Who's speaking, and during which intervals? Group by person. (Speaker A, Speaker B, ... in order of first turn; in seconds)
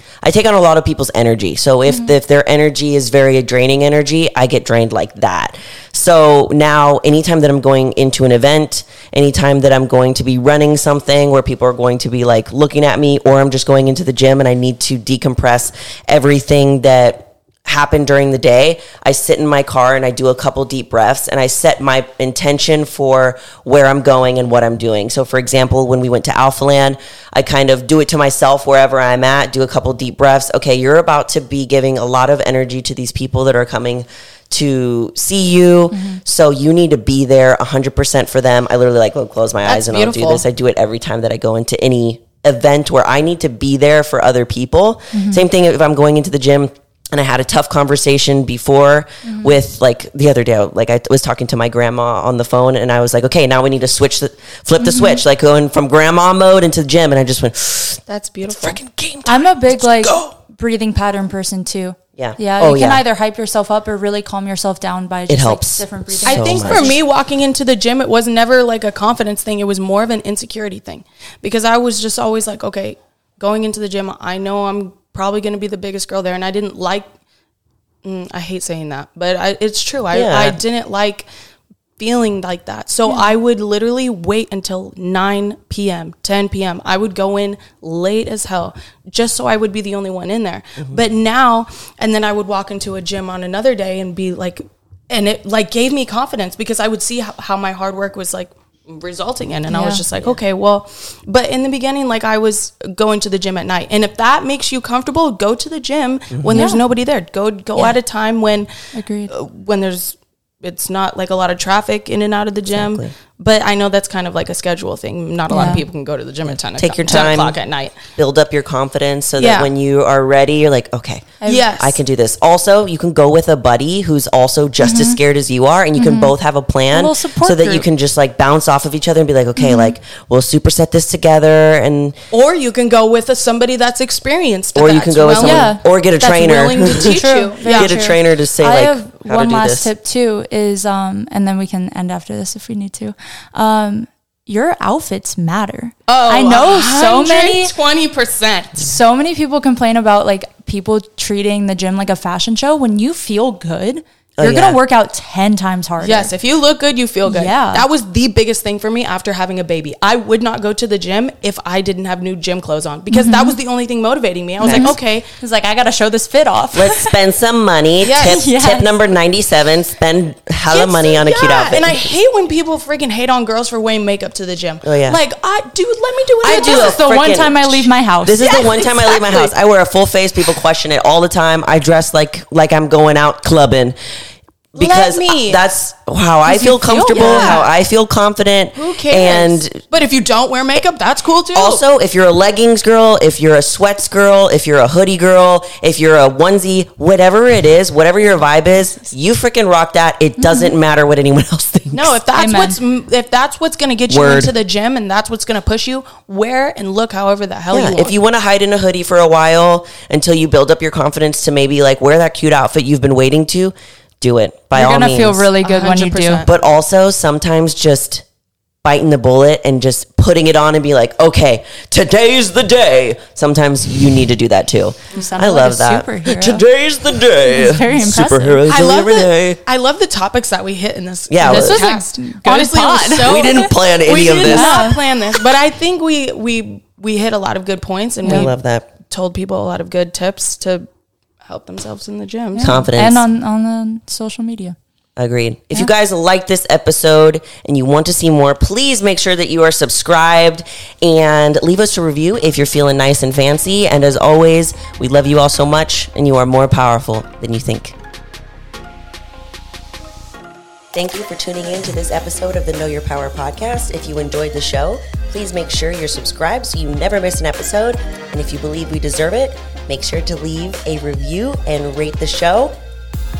Speaker A: 0.2-60.3, 62.2-63.0, 65.3-67.0, 80.1-80.6, 106.3-106.7, 112.7-113.1, 116.5-117.6, 118.1-132.2, 134.8-139.9, 154.4-154.8, 164.6-164.9, 166.7-172.1, 174.8-175.2, 176.4-183.9, 184.7-189.8, 191.5-202.2, 204.1-204.5, 207.7-215.4, 216.4-218.2, 218.8-229.6, 231.3-231.8, 233.2-234.9, 238.2-238.9, 242.6-243.2, 245.2-257.9, 260.9-272.8
Speaker B: 1.9-2.1, 35.9-36.2, 45.1-45.4, 49.2-49.5, 54.8-55.2, 59.2-67.0, 99.7-100.0, 106.5-106.8, 108.9-109.3, 115.5-115.8, 121.4-121.7, 124.8-125.2, 126.0-126.3, 126.9-127.8, 129.6-129.9, 135.4-147.7, 148.8-156.3, 157.3-157.8, 163.1-163.6, 164.6-167.2, 168.2-168.9, 176.5-178.5, 186.4-187.6, 200.4-200.7, 202.3-202.8, 214.7-216.4, 225.1-226.6, 227.5-228.6, 231.4-233.7, 234.4-235.0, 238.2-238.5, 242.5-244.8
Speaker C: 39.6-40.4, 58.1-58.8, 66.2-77.1, 78.0-81.3, 82.0-108.7, 109.3-118.0, 119.4-119.7, 121.4-122.0, 132.3-138.0, 146.1-148.9, 156.0-165.3, 168.0-168.4, 170.7-177.0, 178.4-179.5, 184.7-185.6, 187.1-187.7, 188.7-191.8, 201.9-208.2, 215.6-216.5, 228.7-240.9, 241.4-242.8